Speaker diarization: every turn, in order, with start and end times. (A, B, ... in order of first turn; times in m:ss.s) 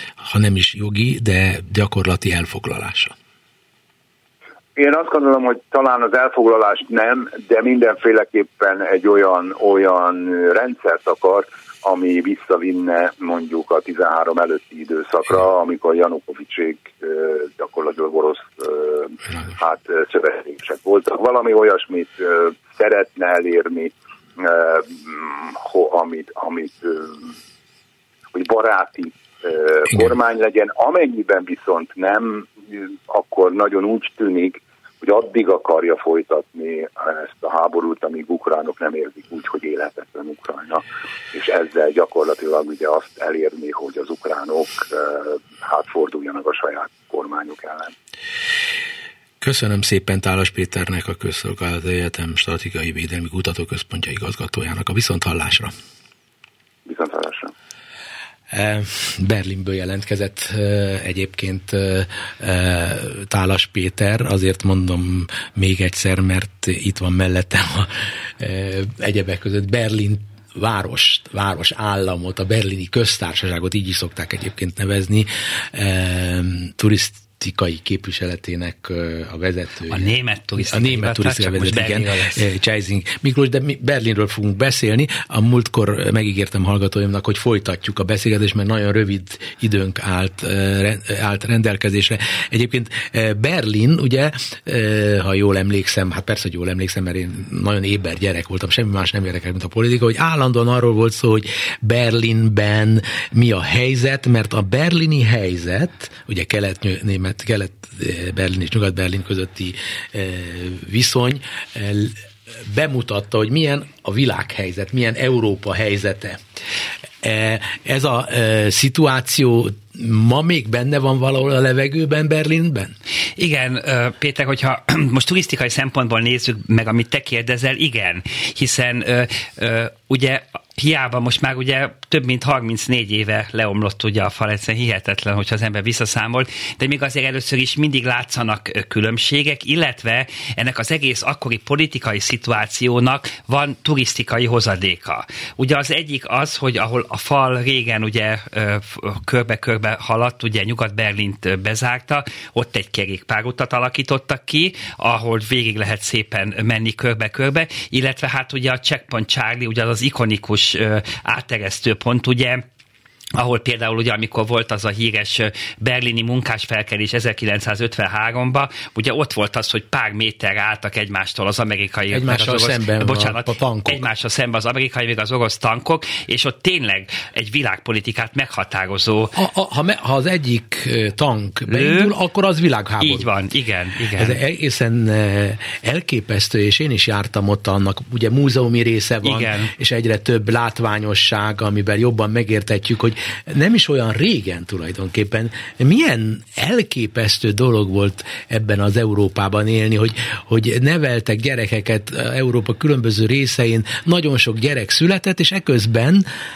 0:00.2-0:03.1 A
0:04.8-0:27.3 B
0:28.3-0:47.9 B
0:49.4-0:55.7 A
0:56.8-0:57.5 B
0:58.5-1:56.4 A
1:19.9-1:22.4 C
1:57.2-2:02.9 A
2:03.4-2:42.6 C
2:43.3-2:59.4 C
2:52.1-2:54.0 A
2:59.3-3:03.3 A
3:01.7-3:02.1 C
3:03.0-3:04.4 C
3:04.2-3:26.2 A
3:09.2-3:09.7 C